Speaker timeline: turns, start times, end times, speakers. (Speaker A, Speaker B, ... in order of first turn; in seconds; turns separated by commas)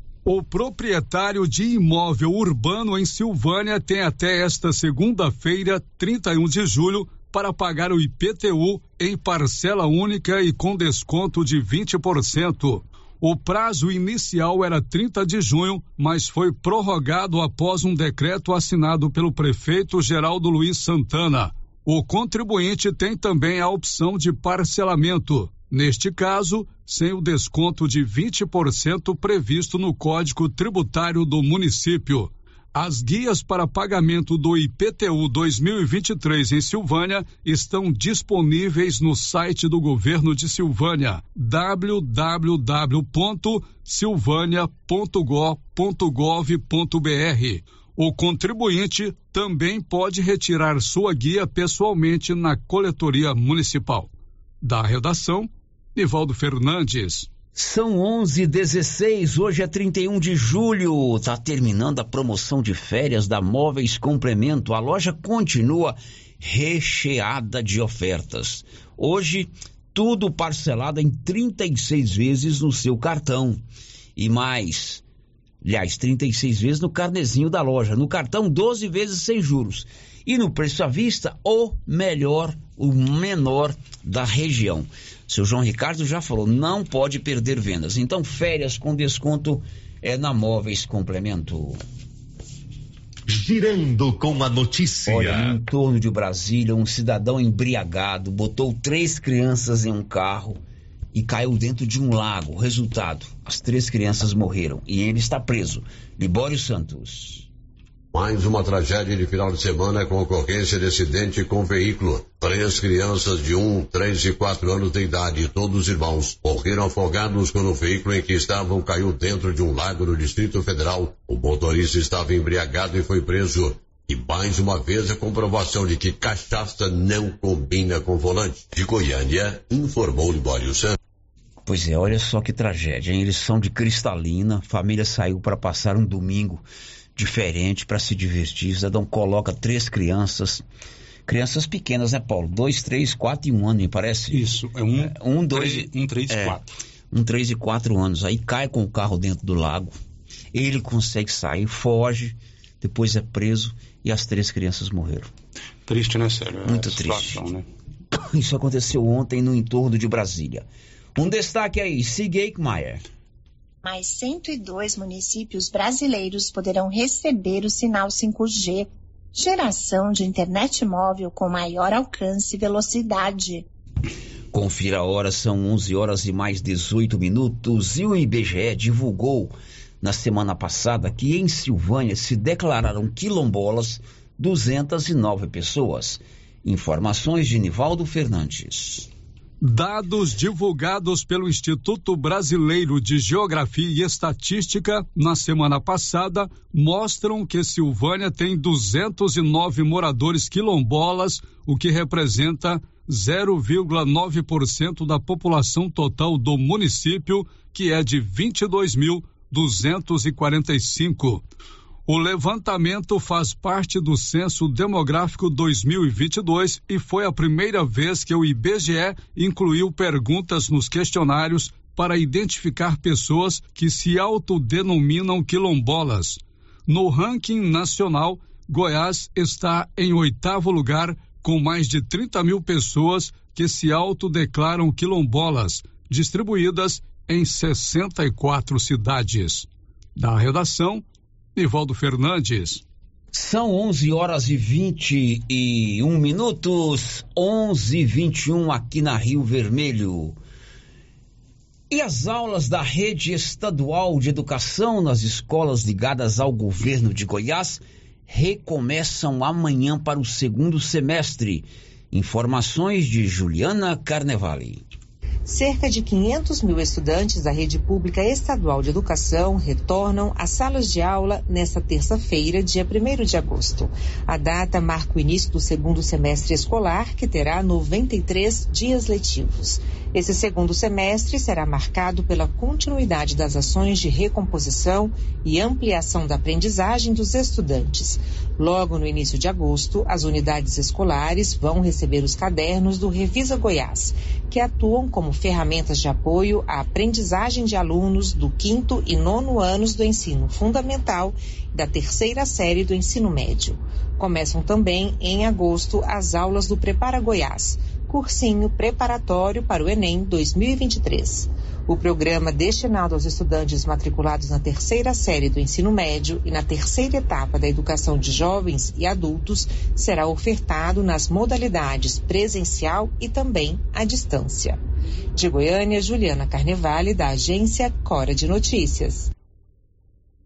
Speaker A: 0.3-54.1, Speaker A: 54.6-57.3, Speaker B: 57.5-73.6, Speaker B: 74.2-75.0, Speaker B: 75.6-91.8, Speaker C: 93.3-95.6, Speaker B: 95.1-100.6, Speaker B: 101.1-107.5, Speaker D: 108.1-131.0, Speaker B: 131.7-136.6, Speaker B: 137.2-140.6, Speaker B: 141.3-144.4, Speaker E: 144.3-146.7, Speaker B: 145.0-146.6, Speaker B: 147.1-149.9, Speaker B: 150.5-155.3, Speaker E: 155.9-157.7, Speaker B: 156.7-157.4, Speaker B: 158.1-160.7, Speaker B: 161.2-163.0, Speaker F: 163.8-173.7, Speaker B: 174.5-189.1, Speaker A: 189.6-211.4, Speaker A: 212.1-241.0, Speaker A: 241.6-242.8, Speaker B: 243.3-250.4, Speaker B: 251.9-264.8, Speaker G: 265.5-324.8, Speaker G: 325.4-329.3